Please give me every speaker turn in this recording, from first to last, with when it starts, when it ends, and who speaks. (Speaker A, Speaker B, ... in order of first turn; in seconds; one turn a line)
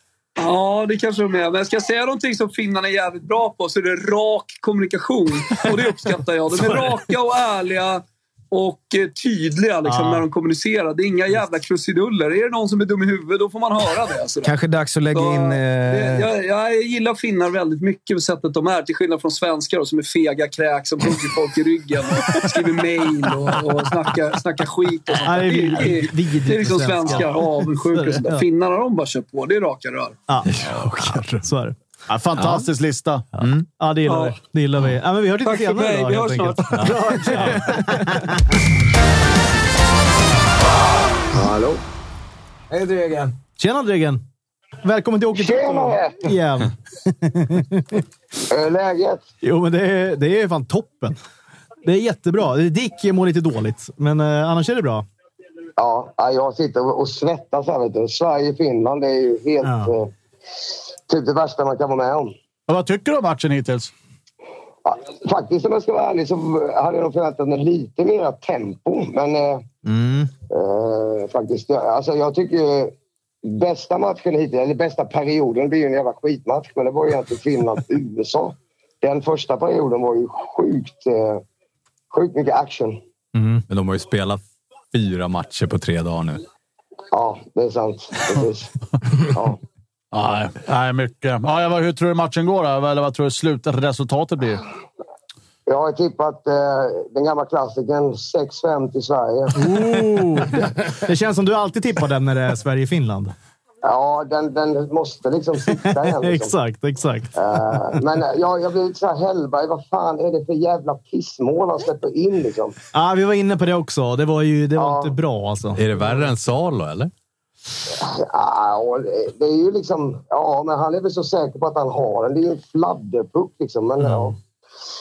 Speaker A: 0.4-14.6
Speaker B: 9.8-10.3
Speaker C: 14.4-16.3
Speaker A: 15.1-30.2
Speaker B: 25.2-28.4
Speaker B: 30.3-31.8
Speaker D: 30.5-31.5
Speaker E: 32.1-33.4
Speaker B: 33.7-38.4
Speaker A: 34.1-34.4
Speaker A: 35.4-37.0
Speaker D: 36.7-37.0
Speaker C: 37.1-37.8
Speaker F: 41.3-41.8
Speaker C: 42.7-43.3
Speaker B: 43.6-44.2
Speaker B: 44.8-48.0
Speaker F: 45.4-46.2
Speaker F: 48.5-49.2
Speaker B: 49.4-51.2
Speaker B: 51.9-55.1
Speaker F: 55.8-60.1
Speaker B: 59.6-59.9
Speaker F: 61.1-62.3
Speaker E: 62.7-63.9
Speaker F: 64.9-69.7
Speaker B: 69.9-70.3
Speaker F: 70.5-81.4
Speaker F: 82.1-83.0
Speaker D: 83.4-84.4
Speaker D: 84.9-86.4
Speaker F: 87.1-88.7
Speaker F: 89.3-89.6
Speaker E: 90.1-94.6
Speaker F: 95.7-100.0
Speaker B: 99.5-103.3
Speaker F: 103.8-106.5
Speaker B: 105.9-107.8
Speaker F: 107.4-112.8
Speaker B: 112.9-115.8
Speaker F: 114.8-115.2
Speaker D: 115.8-117.1
Speaker F: 118.0-124.4
Speaker B: 124.0-124.3